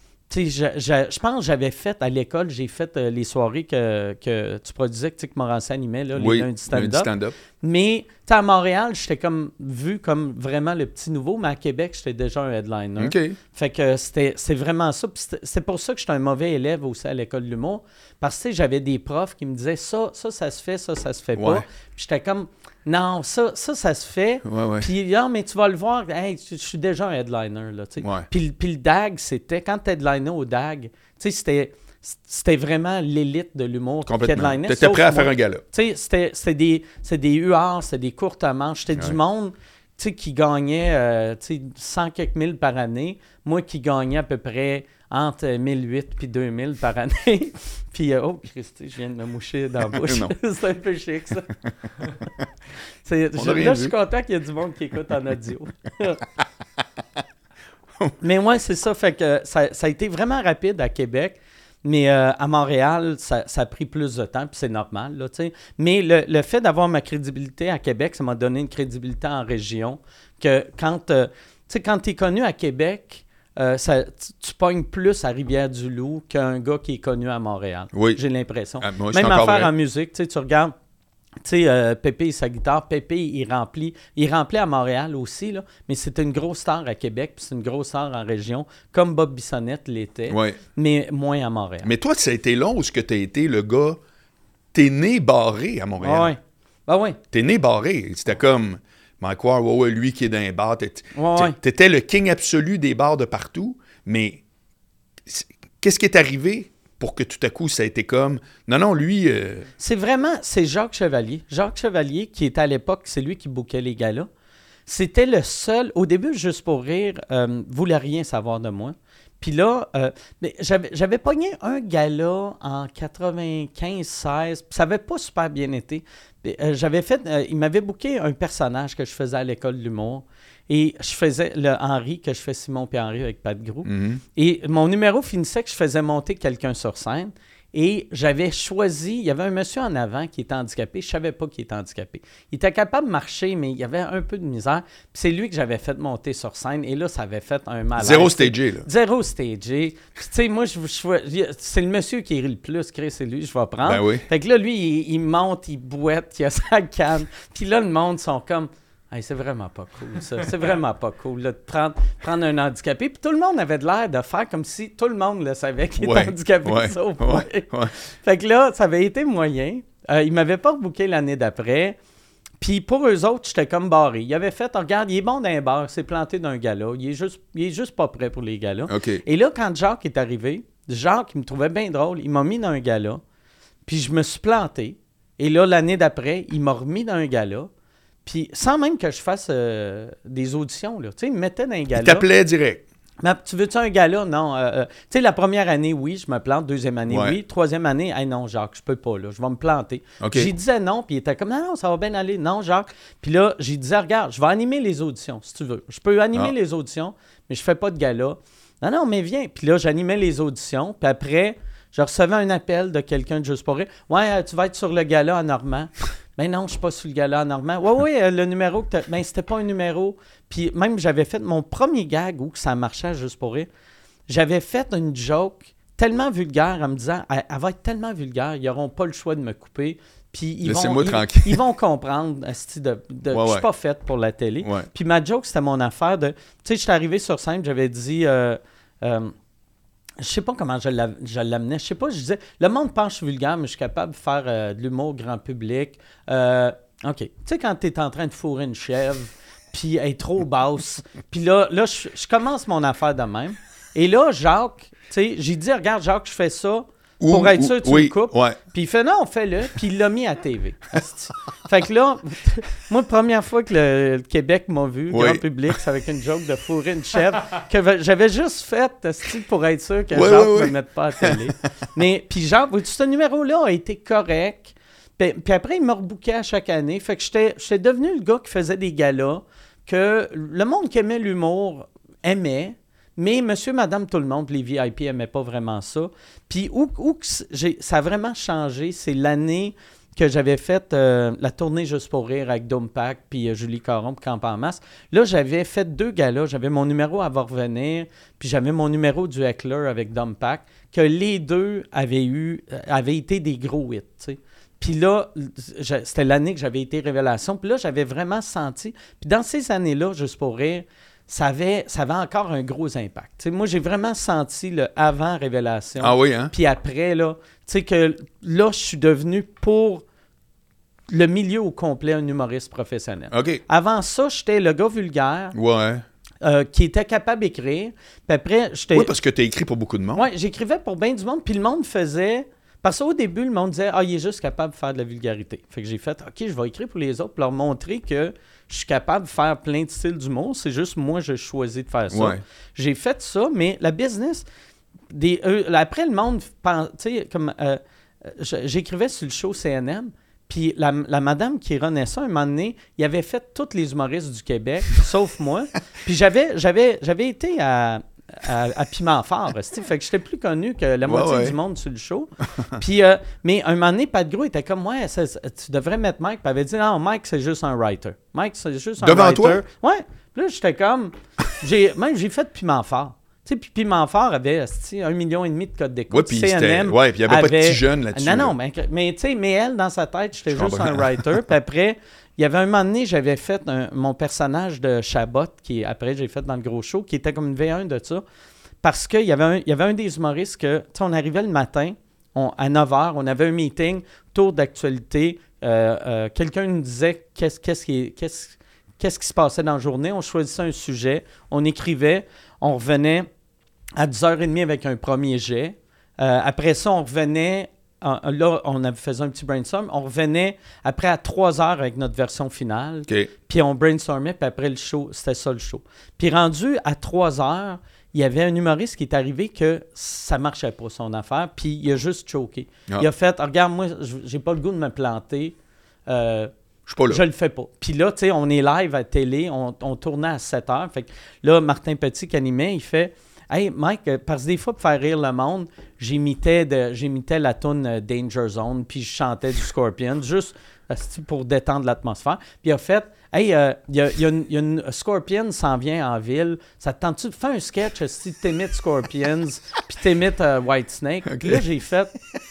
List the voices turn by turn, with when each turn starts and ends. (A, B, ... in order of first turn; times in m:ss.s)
0:00.3-0:51.5 A
0:06.2-0:07.4 B
0:13.0-0:13.4 B
0:21.4-0:21.6 B
0:24.4-0:24.9 B
0:28.0-0:28.3 B
0:34.1-0:35.6 B
0:50.0-0:50.3 B
0:53.0-0:56.2 A
0:53.4-0:53.9 B
0:58.2-1:20.7 A
1:17.9-1:18.2 B
1:18.8-1:19.7 B
1:21.4-1:31.9 A
1:30.3-1:30.6 B
1:31.8-1:34.0 B
1:34.7-1:36.3 B
1:36.0-1:37.2 A
1:37.3-1:44.4 B
1:41.2-1:41.6 A
1:45.3-1:49.7 B
1:49.8-1:54.3 A
1:54.9-2:52.0 A
2:13.8-2:14.2 B
2:28.0-2:28.9 B
2:33.8-2:34.3 B
2:46.0-2:48.0 B
2:52.6-3:03.2 A
2:58.9-2:59.2 B
3:03.9-3:07.7 A
3:08.2-3:12.2 A
3:12.0-3:12.8 B
3:13.2-3:43.7 A
3:17.1-3:17.4 B
3:20.2-3:20.5 B
3:44.3-3:59.3 A
3:50.6-3:51.6 B
3:53.3-3:53.7 B
3:54.6-3:54.9 B
4:00.2-5:20.0 A
4:17.2-4:18.6 B
4:25.1-4:25.8 B
4:30.1-4:31.5 B
5:16.0-5:16.5 B
5:21.1-5:25.6 A
5:23.3-5:23.6 B
5:25.5-5:26.0 B
5:26.4-5:29.1 A
5:28.9-5:30.2 B
5:30.2-5:44.5 A
5:42.1-5:42.4 B
5:45.1-6:28.2 A
6:01.1-6:01.6 B
6:02.5-6:02.8 B
6:09.0-6:09.6 B
6:16.1-6:18.6 B
6:20.5-6:21.4 B
6:28.8-6:43.3 A
6:44.0-7:05.6 A
7:06.1-7:06.5 A
7:06.9-7:07.2 B
7:07.1-7:32.1 A
7:31.3-7:31.6 B